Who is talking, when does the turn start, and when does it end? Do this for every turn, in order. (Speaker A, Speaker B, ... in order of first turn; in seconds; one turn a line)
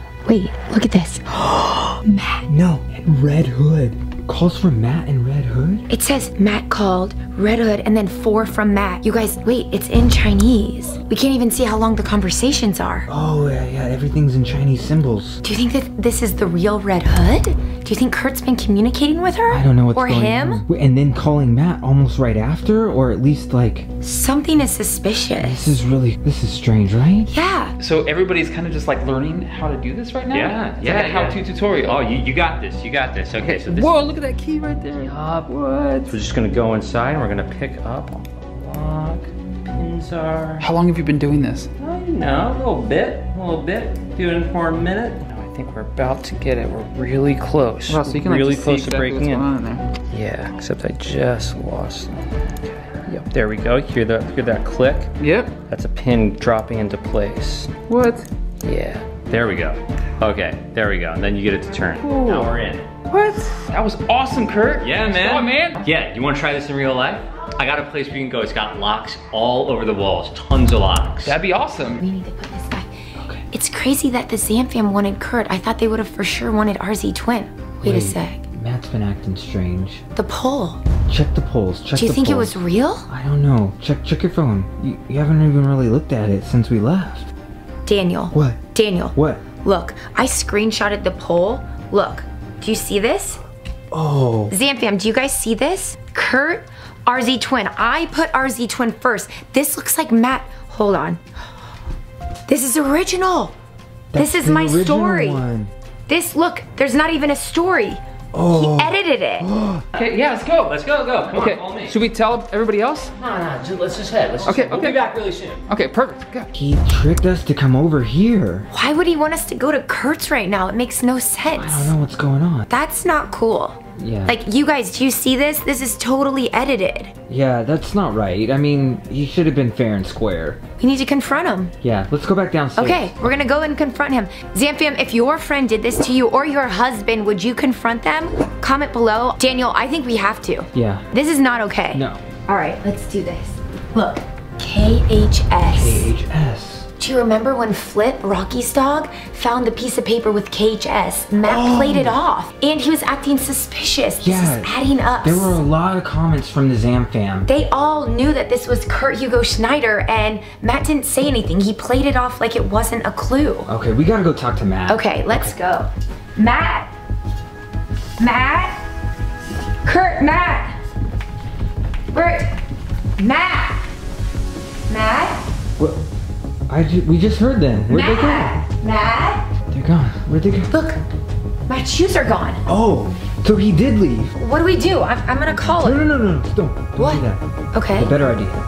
Speaker A: 0.2-2.5
Speaker B: 2.5-5.8
Speaker A: 5.9-13.1
Speaker B: 13.1-15.4
Speaker A: 15.4-20.6
Speaker B: 19.5-23.9
Speaker A: 24.0-25.6
Speaker B: 25.4-27.3
Speaker A: 27.3-27.7
Speaker C: 27.8-32.0
Speaker D: 30.3-33.9
Speaker C: 33.4-36.1
Speaker D: 36.1-40.7
Speaker C: 40.6-41.7
Speaker D: 41.8-49.5
Speaker C: 47.9-49.8
Speaker D: 50.1-55.1
Speaker C: 55.2-55.5
Speaker D: 55.7-57.7
Speaker C: 57.9-58.2
Speaker D: 58.6-62.9
Speaker C: 62.0-62.5
Speaker C: 63.1-65.9
Speaker D: 64.8-71.4
Speaker C: 71.2-72.0
Speaker A: 72.0-72.9
Speaker B: 73.2-73.5
Speaker A: 73.5-78.4
Speaker B: 77.8-80.0
Speaker A: 80.1-80.8
Speaker B: 81.1-82.6
Speaker A: 81.9-83.0
Speaker B: 83.1-87.3
Speaker A: 87.8-93.4
Speaker B: 88.3-88.6
Speaker B: 89.1-89.4
Speaker B: 93.9-94.5
Speaker A: 94.5-101.2
Speaker A: 102.5-103.5
Speaker B: 104.1-105.7
Speaker A: 104.1-105.4
Speaker A: 106.1-109.5
Speaker B: 108.3-109.8
Speaker C: 109.9-110.7
Speaker D: 110.6-112.0
Speaker C: 111.3-113.1
Speaker D: 113.2-115.6
Speaker C: 114.4-115.0
Speaker C: 115.7-116.5
Speaker B: 116.5-118.7
Speaker A: 118.7-121.9
Speaker B: 121.5-122.7
Speaker A: 122.7-127.1
Speaker B: 124.0-124.3
Speaker B: 127.3-130.6
Speaker A: 130.8-131.7
Speaker B: 131.8-133.3
Speaker A: 132.8-146.1
Speaker B: 140.7-141.0
Speaker B: 141.9-142.2
Speaker B: 145.7-146.9
Speaker A: 147.0-155.6
Speaker B: 151.4-152.2
Speaker B: 154.2-157.5
Speaker A: 157.5-163.7
Speaker B: 163.7-165.5
Speaker A: 164.9-166.9
Speaker A: 168.2-168.8
Speaker A: 169.8-170.7
Speaker A: 172.1-172.5
Speaker A: 173.2-173.8
Speaker A: 174.9-175.4
Speaker B: 176.7-178.6
Speaker A: 177.9-179.4
Speaker B: 179.7-180.7
Speaker A: 180.7-181.0
Speaker A: 181.7-182.6
Speaker B: 182.7-184.3
Speaker A: 184.3-186.0
Speaker B: 185.6-187.4
Speaker A: 187.0-188.1
Speaker B: 187.9-188.6